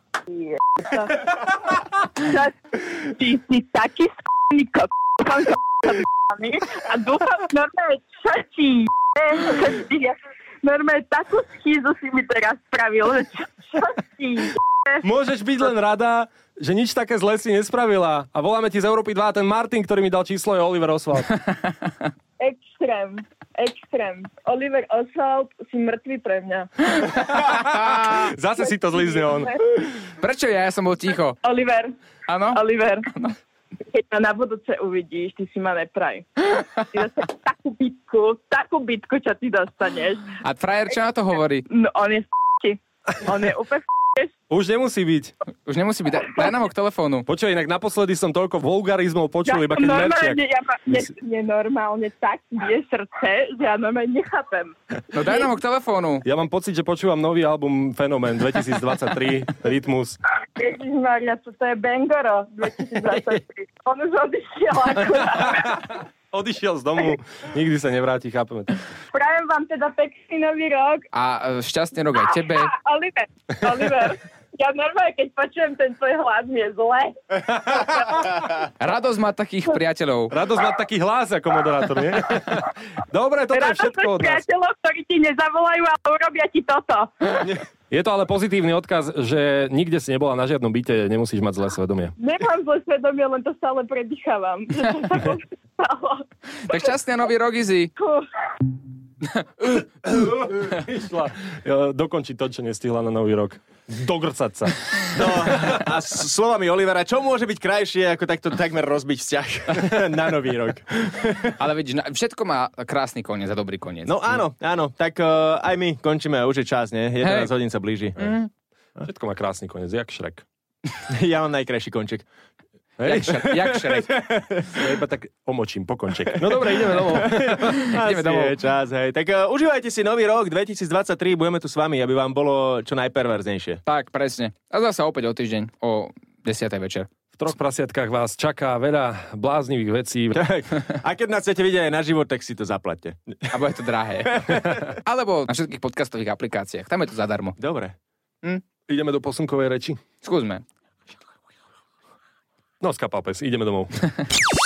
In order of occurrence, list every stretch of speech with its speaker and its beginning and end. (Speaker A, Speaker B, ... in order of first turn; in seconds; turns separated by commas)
Speaker A: 0.3-1.3, Speaker A: 2.2-15.0, Speaker B: 15.0-21.3, Speaker C: 21.3-21.9, Speaker A: 22.4-27.5, Speaker B: 27.1-29.6, Speaker A: 28.9-29.5, Speaker C: 30.2-31.4, Speaker A: 31.4-31.9, Speaker C: 32.3-32.6, Speaker A: 32.5-33.1, Speaker C: 33.1-33.4, Speaker A: 33.8-40.3, Speaker C: 40.4-41.6, Speaker A: 41.7-44.3, Speaker B: 44.5-45.3, Speaker C: 45.6-47.3, Speaker B: 47.3-50.4, Speaker A: 49.5-54.7, Speaker C: 55.1-56.2, Speaker B: 56.2-60.2, Speaker A: 60.5-66.0, Speaker B: 65.1-68.8, Speaker A: 69.1-71.0, Speaker C: 71.1-72.7, Speaker A: 72.2-78.0, Speaker C: 78.8-80.4, Speaker B: 80.3-84.4, Speaker A: 83.5-87.6, Speaker B: 87.9-92.1, Speaker A: 92.2-96.2, Speaker C: 96.7-97.9, Speaker A: 98.0-98.2, Speaker B: 99.7-105.8, Speaker D: 105.1-111.5, Speaker C: 111.6-114.3, Speaker D: 114.0-118.2, Speaker C: 117.2-117.5, Speaker C: 118.2-118.5, Speaker B: 119.0-120.4, Speaker D: 121.1-122.2, Speaker B: 123.0-123.4, Speaker C: 123.0-124.1, Speaker D: 123.4-124.7, Speaker B: 124.7-128.2, Speaker D: 126.3-133.8, Speaker C: 127.8-128.5, Speaker C: 133.8-137.1, Speaker B: 137.3-140.5, Speaker D: 140.3-143.5, Speaker C: 143.5-147.6, Speaker D: 144.3-144.8, Speaker D: 147.6-147.9, Speaker B: 148.9-150.0, Speaker C: 150.2-150.6, Speaker B: 152.8-153.9